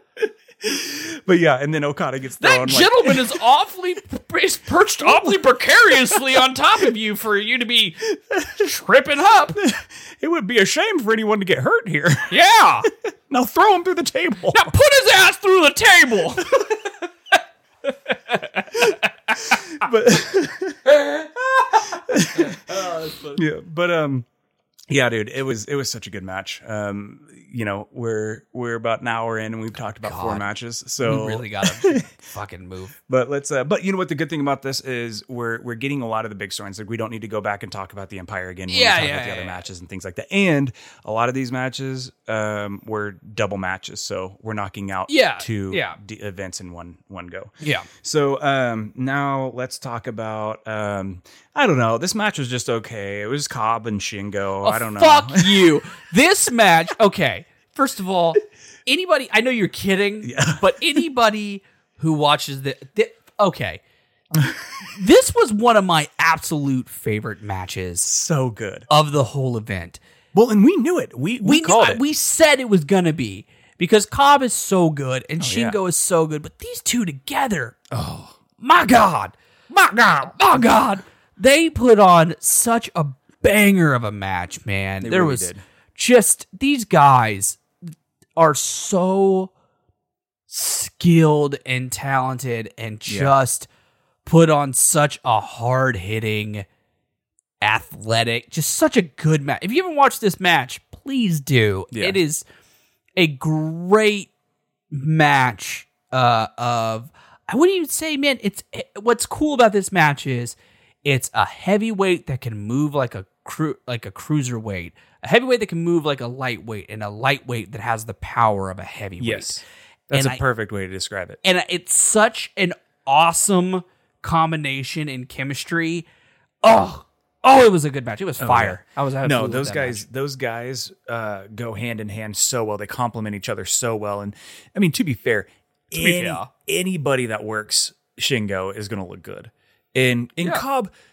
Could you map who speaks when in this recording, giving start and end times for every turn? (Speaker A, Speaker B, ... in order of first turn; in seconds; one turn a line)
Speaker A: 0.6-3.3
Speaker B: 2.4-9.6
Speaker A: 5.1-5.3
Speaker A: 9.5-12.3
Speaker B: 12.3-12.9
Speaker A: 13.3-14.7
Speaker B: 14.5-16.7
Speaker B: 18.3-19.6
Speaker A: 18.7-21.1
Speaker B: 21.0-23.4
Speaker A: 21.8-22.6
Speaker A: 23.3-24.2
Speaker A: 24.9-32.2
Speaker B: 29.9-30.4
Speaker B: 31.0-32.9
Speaker A: 33.1-55.8
Speaker B: 38.7-39.7
Speaker B: 45.1-46.0
Speaker B: 47.6-47.9
Speaker B: 54.6-63.8
Speaker A: 60.2-61.0
Speaker A: 64.3-64.8
Speaker B: 64.8-68.1
Speaker A: 68.0-68.9
Speaker B: 68.9-70.0
Speaker A: 70.3-72.0
Speaker B: 71.4-77.8
Speaker A: 75.4-75.8
Speaker A: 77.9-78.4
Speaker B: 78.6-79.3
Speaker A: 79.7-80.4
Speaker B: 80.2-87.6
Speaker A: 85.0-85.6
Speaker B: 88.3-89.5
Speaker B: 90.5-93.7
Speaker A: 93.1-93.3
Speaker B: 94.2-96.7
Speaker B: 97.6-102.4
Speaker A: 101.9-102.2
Speaker B: 103.2-104.3
Speaker B: 104.9-120.4
Speaker A: 119.2-121.4
Speaker B: 121.4-126.1
Speaker B: 126.6-130.0
Speaker A: 128.4-140.9
Speaker B: 135.9-136.5